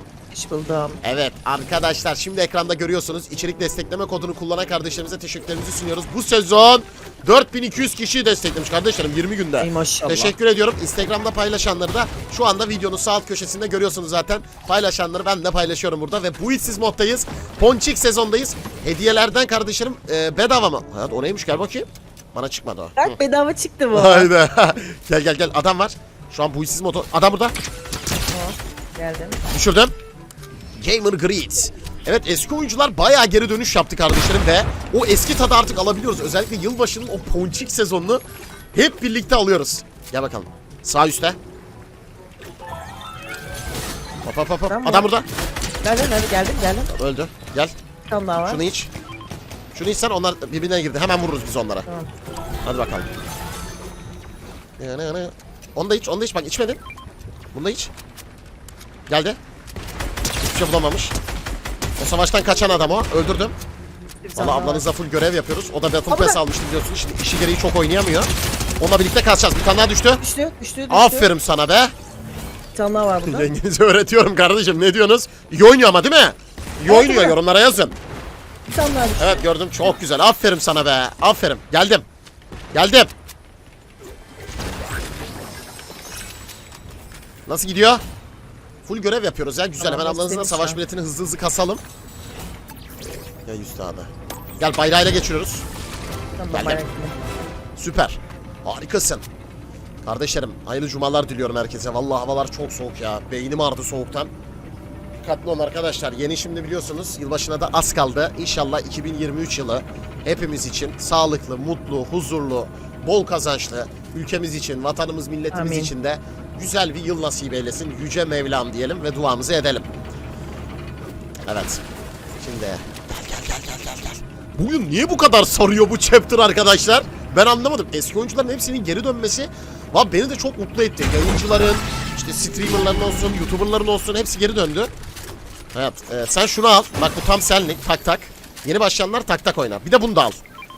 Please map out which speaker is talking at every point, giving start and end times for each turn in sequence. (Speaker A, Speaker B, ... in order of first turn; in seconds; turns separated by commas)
Speaker A: 0.3-1.0, Speaker B: 1.0-23.2, Speaker A: 9.6-10.3, Speaker A: 23.0-24.3, Speaker B: 23.9-27.6, Speaker A: 28.3-29.4, Speaker B: 29.5-29.9, Speaker B: 30.8-38.2, Speaker B: 38.7-41.4, Speaker B: 44.2-45.3, Speaker A: 44.7-45.1, Speaker A: 45.8-46.9, Speaker B: 46.9-47.7, Speaker A: 48.1-48.6, Speaker B: 48.5-48.9, Speaker B: 49.7-51.9, Speaker B: 52.6-53.1, Speaker B: 54.8-56.8, Speaker B: 57.5-57.9, Speaker B: 59.1-59.4, Speaker B: 60.4-61.1, Speaker B: 62.0-63.5, Speaker A: 64.2-64.8, Speaker B: 64.4-70.2, Speaker A: 66.1-66.4, Speaker A: 70.2-71.3, Speaker B: 70.9-71.9, Speaker A: 72.8-73.5, Speaker B: 73.3-78.0, Speaker A: 76.9-77.3, Speaker A: 78.7-79.4, Speaker B: 79.2-82.0, Speaker B: 82.7-83.1, Speaker B: 87.5-88.0, Speaker B: 88.8-91.8, Speaker A: 89.8-90.8, Speaker B: 93.5-95.7, Speaker A: 96.4-97.2, Speaker B: 96.5-96.8, Speaker B: 97.8-99.2, Speaker B: 100.0-104.3, Speaker B: 105.2-119.9, Speaker A: 115.5-115.9, Speaker B: 121.5-121.8, Speaker B: 122.4-134.9, Speaker B: 135.7-140.4